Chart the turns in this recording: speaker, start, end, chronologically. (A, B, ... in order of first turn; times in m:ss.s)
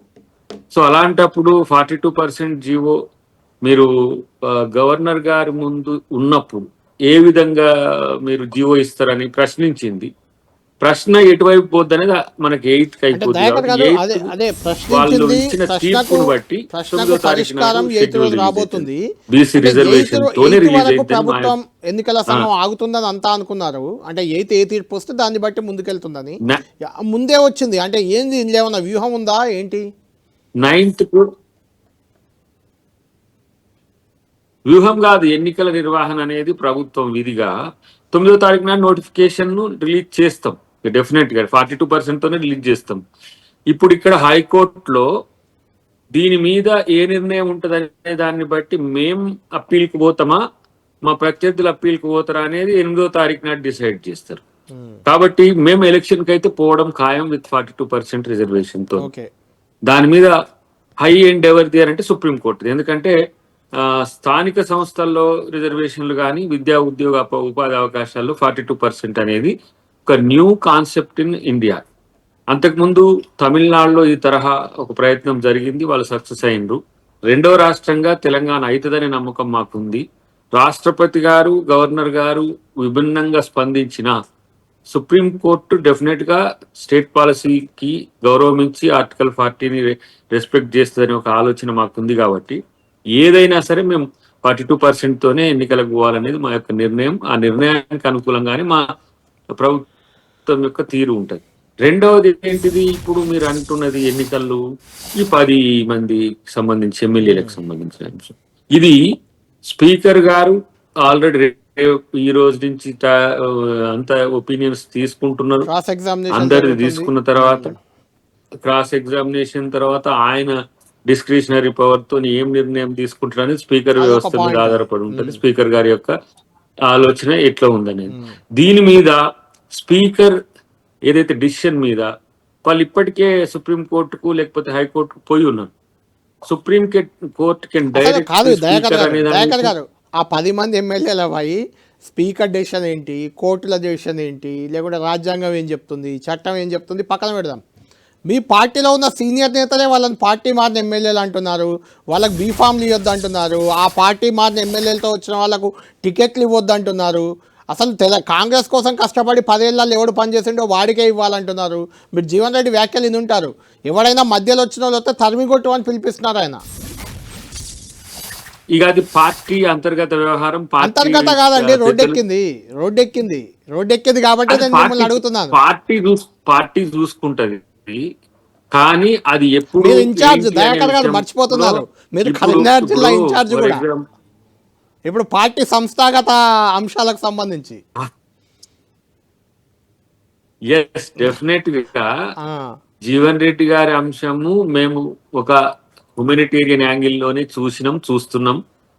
0:00.7-0:03.0 A
0:04.4-0:07.7 A
0:08.2-0:10.1 A
0:10.8-0:14.3 A
0:13.1-0:19.0 B
0:14.9-0:21.5 A
0:19.6-0:29.8 B
0:30.6-0:31.3 A
0:34.7-0:37.5 A
0:38.1-0:43.0 A
0:43.7-0:45.1 A
0:46.1-0:50.4 A
0:51.0-0:54.4 A
0:54.7-0:55.0 B
0:55.0-0:59.0 A
0:59.0-0:59.3 B
0:59.9-1:00.3 A
1:01.0-1:03.1 A
1:03.8-1:09.5 A
1:10.1-1:11.8 A
1:12.5-1:20.0 A
1:20.6-1:24.1 A
1:24.9-1:32.6 A
1:33.2-1:38.8 A
1:39.5-1:39.8 A
1:40.5-1:44.6 A
1:45.2-1:49.0 A
1:47.2-1:47.5 B
1:49.7-1:55.7 A
1:55.7-1:57.8 B
1:56.3-1:57.7 A
1:58.6-2:00.6 A
2:01.1-2:06.1 A
2:04.0-2:05.4 B
2:06.8-2:09.2 A
2:08.1-2:08.4 B
2:09.7-2:10.4 A
2:11.1-2:12.1 A
2:12.6-2:15.7 A
2:16.5-2:19.7 A
2:17.9-2:27.6 B
2:28.3-2:46.6 B
2:48.7-2:52.2 A
2:50.8-2:55.5 B
2:54.5-2:58.1 A
2:58.7-3:04.0 A
2:59.8-3:03.8 B
3:05.1-3:07.8 B
3:10.7-3:12.1 A
3:12.4-3:12.7 B
3:13.0-3:15.6 A
3:16.2-3:18.6 A